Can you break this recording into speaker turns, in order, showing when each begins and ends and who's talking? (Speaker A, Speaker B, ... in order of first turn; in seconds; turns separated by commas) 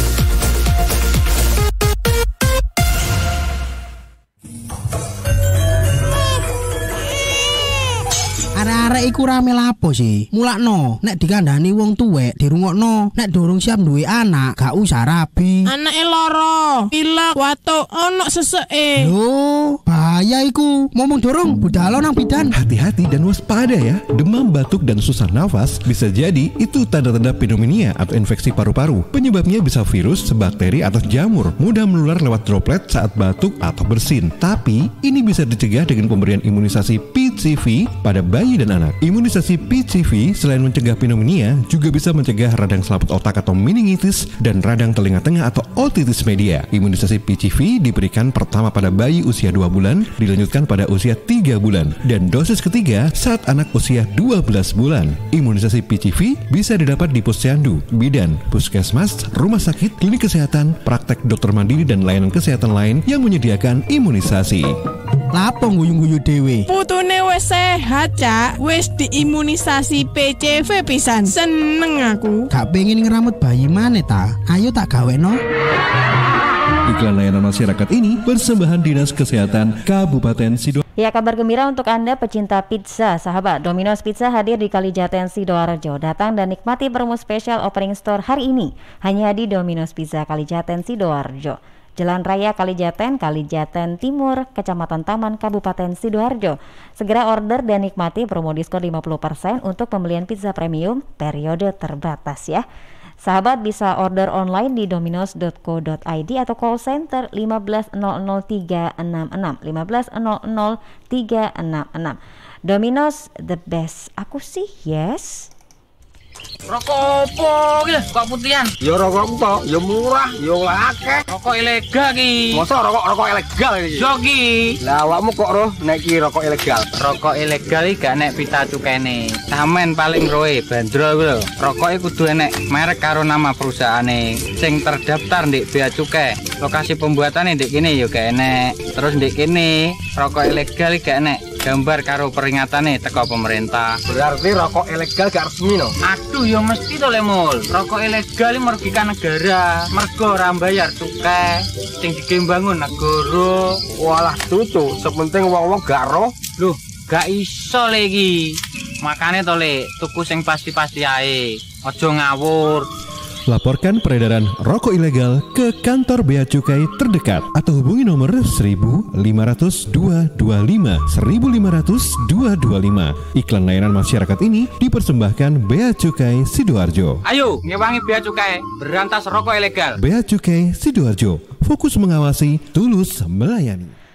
Speaker A: 8.6-15.7, Speaker B: 15.7-19.1, Speaker A: 19.0-22.6, Speaker C: 22.5-64.7, Speaker A: 65.3-66.7, Speaker B: 66.7-72.5, Speaker A: 72.5-75.4, Speaker C: 76.8-80.8, Speaker D: 81.0-102.6, Speaker D: 103.2-115.5, Speaker E: 116.7-118.7, Speaker F: 118.8-121.2, Speaker E: 121.3-122.6, Speaker F: 122.5-124.1, Speaker E: 124.0-124.8, Speaker F: 124.8-126.8, Speaker E: 127.0-144.0, Speaker F: 144.1-145.9, Speaker E: 146.0-153.8, Speaker F: 153.9-156.3, Speaker E: 156.6-162.9, Speaker C: 163.5-177.2, Speaker E: 177.3-180.0, Speaker C: 180.0-183.9